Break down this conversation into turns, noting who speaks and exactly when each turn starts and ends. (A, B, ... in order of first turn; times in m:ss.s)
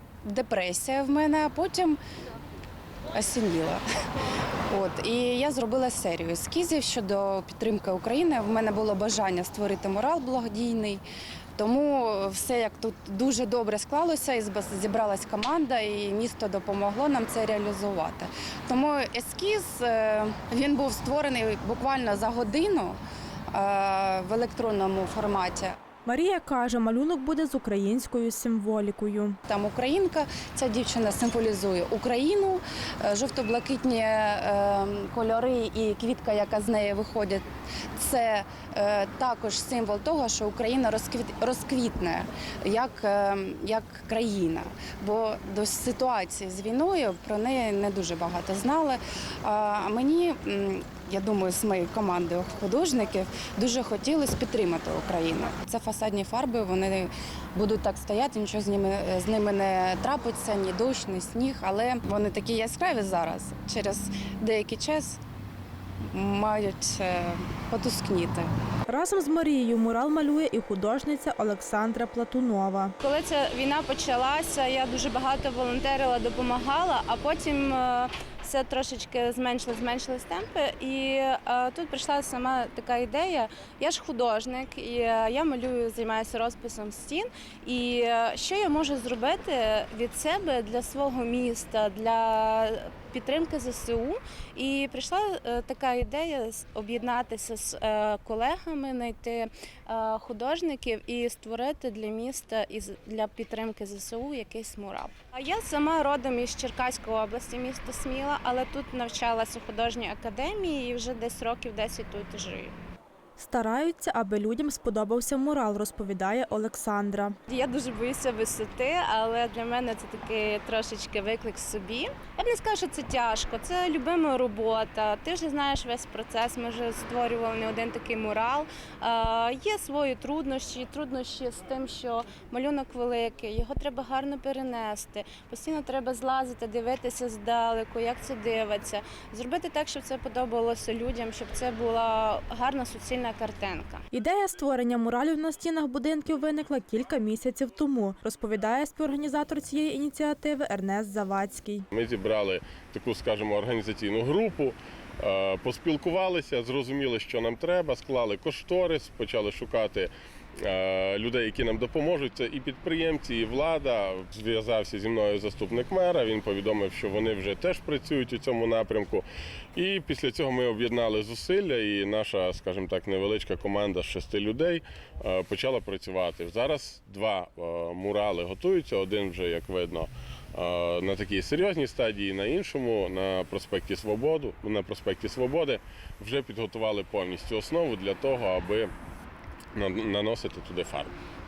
0:00.2-0:02.0 A
0:03.1-0:03.8 A
0:04.7-0:11.0 A
0:11.6-0:23.0 A
0:23.5-0:25.7 A
0:26.0-0:29.4 B
0:29.5-0:37.4 A
0:38.0-1:05.2 A
1:06.1-1:08.5 A
1:08.9-1:12.9 B
1:13.0-1:52.7 C
1:53.4-1:57.3 B
1:57.5-2:24.0 C
2:24.1-2:31.8 B
2:31.9-2:40.1 D
2:40.6-3:08.9 D
3:09.7-3:11.1 D